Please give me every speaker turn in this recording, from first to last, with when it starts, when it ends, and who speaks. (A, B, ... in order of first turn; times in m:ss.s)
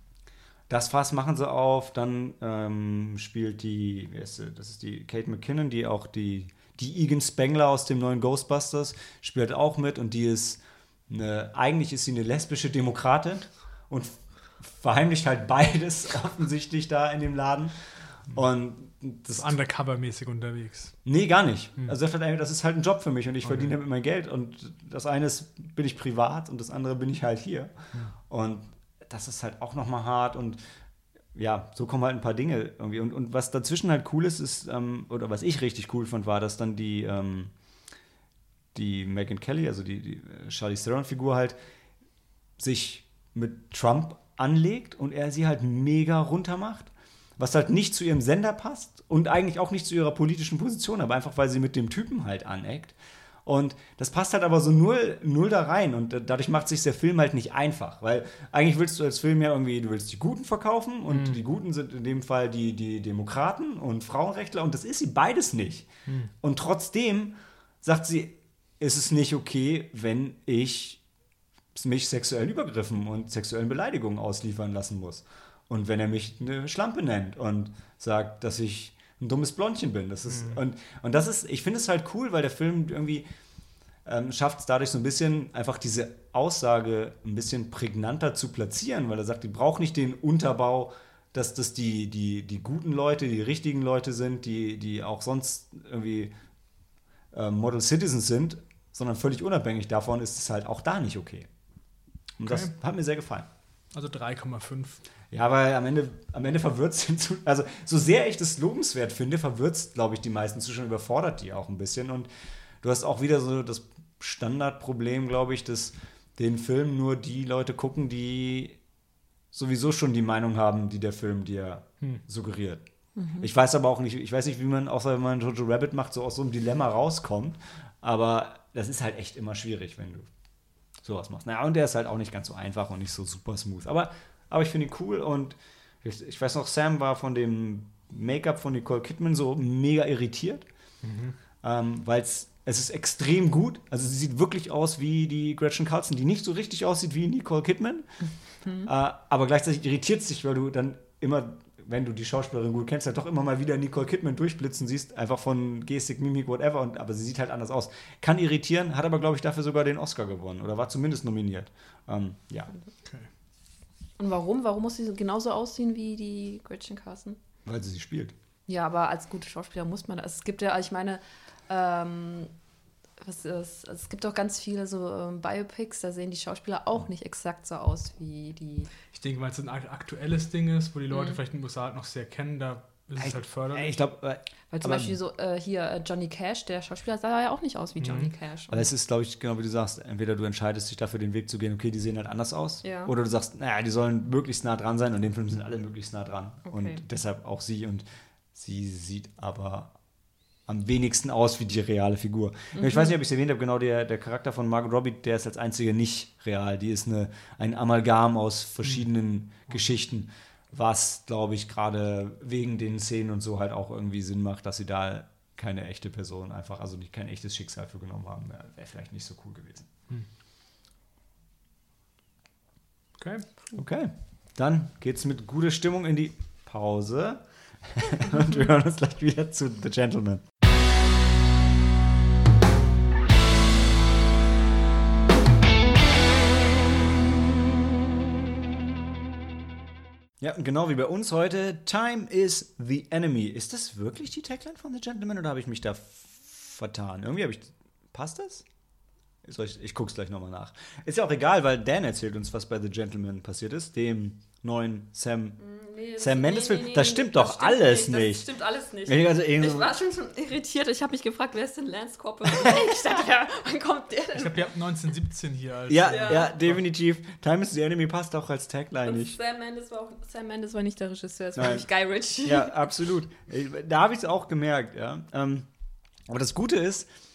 0:00.7-0:19.6 A
0:19.3-0:21.0 B
0:21.0-0:27.7 A
0:23.4-0:23.8 B
0:28.3-0:30.6 A
0:31.3-0:37.5 A
0:38.7-0:41.6 A
0:42.6-1:05.9 A
1:01.1-1:01.4 B
1:06.4-1:11.0 A
1:11.7-1:23.3 A
1:20.3-1:20.6 B
1:24.0-1:36.3 A
1:37.3-1:41.5 A
1:42.4-1:43.5 A
1:42.4-1:42.7 B
1:43.9-1:45.0 B
1:45.3-1:52.3 A
1:52.8-1:58.8 A
1:59.5-2:02.8 A
2:03.2-2:03.5 C
2:03.4-2:10.3 A
2:11.0-2:20.7 A
2:21.0-2:21.4 B
2:21.6-2:28.3 A
2:28.8-2:42.7 A
2:44.2-2:47.4 C
2:47.6-2:48.4 A
2:48.7-2:52.5 C
2:53.2-2:58.9 C
2:59.1-3:03.9 B
3:01.1-3:01.4 C
3:03.2-3:05.2 A
3:04.7-3:08.9 C
3:08.0-3:08.3 B
3:08.7-3:19.9 A
3:12.8-3:13.1 C
3:16.7-3:17.0 C
3:20.7-3:39.9 A
3:22.7-3:23.1 C
3:43.2-3:43.5 B
3:43.7-3:50.4 A
4:00.4-4:08.6 A
4:09.4-4:15.6 A
4:15.6-4:24.7 C
4:16.2-4:18.5 A
4:19.1-4:20.0 A
4:24.3-4:26.8 B
4:25.9-4:29.4 A
4:26.1-4:26.5 C
4:29.0-4:32.8 C
4:31.6-4:31.9 A
4:32.4-4:35.7 A
4:36.3-4:37.1 A